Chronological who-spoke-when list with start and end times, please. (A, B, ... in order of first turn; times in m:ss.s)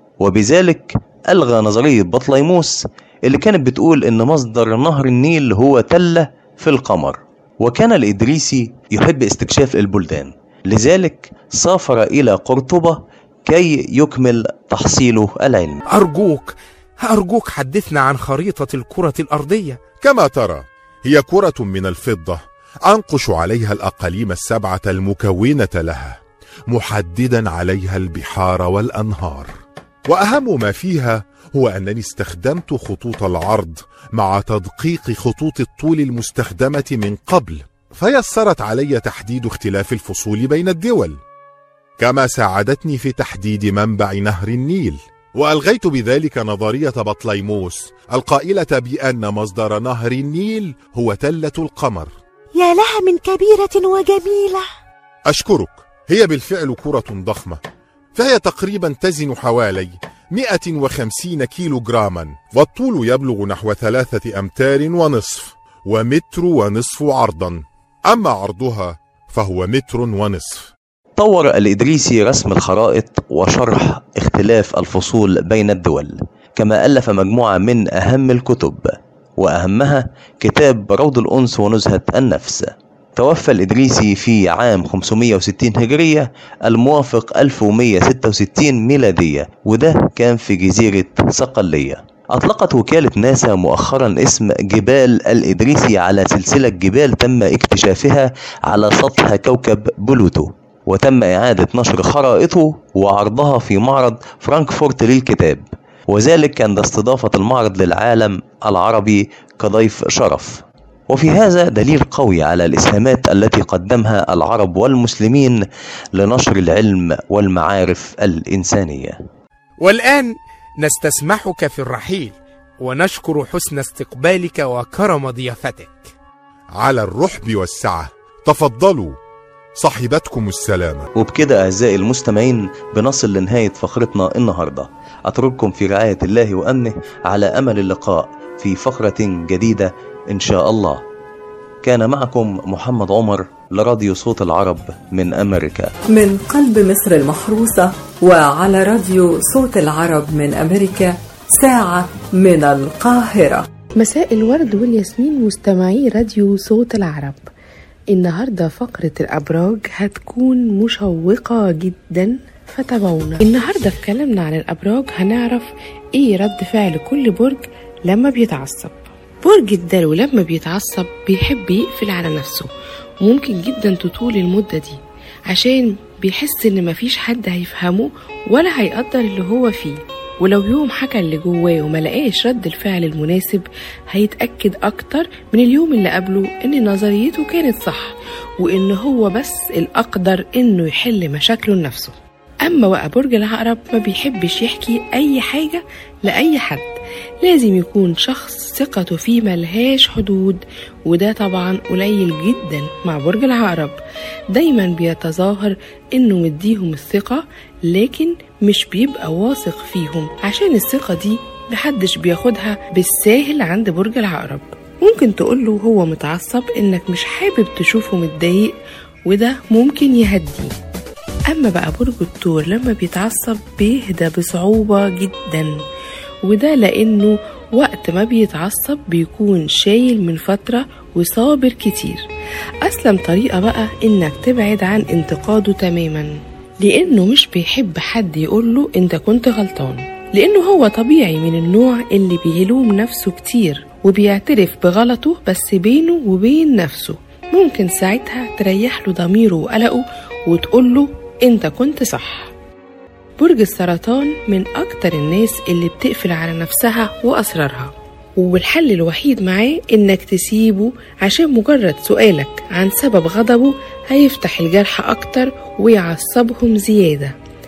0:00.2-0:15.8 A
0:15.9-0:19.8 B
0:20.0-0:26.2 C
0:26.7-0:29.5 C
0:30.0-0:41.2 C
0:42.0-0:52.1 C
0:52.5-0:54.6 D
0:55.3-0:57.6 C
0:58.1-1:10.7 C
1:11.2-1:59.2 A
1:59.8-2:06.1 B
2:06.7-2:09.2 C
2:09.8-2:11.1 C
2:11.1-2:21.0 A
2:21.8-2:25.9 A
2:26.1-2:33.6 E
2:34.0-2:37.4 F
2:38.1-2:52.7 F
2:53.2-3:16.9 F
3:17.4-3:24.0 F
3:24.5-3:38.7 F
3:39.3-3:40.7 F
3:41.5-3:45.7 F
3:46.5-3:52.2 F
3:52.8-4:12.5 F
4:13.4-4:27.3 F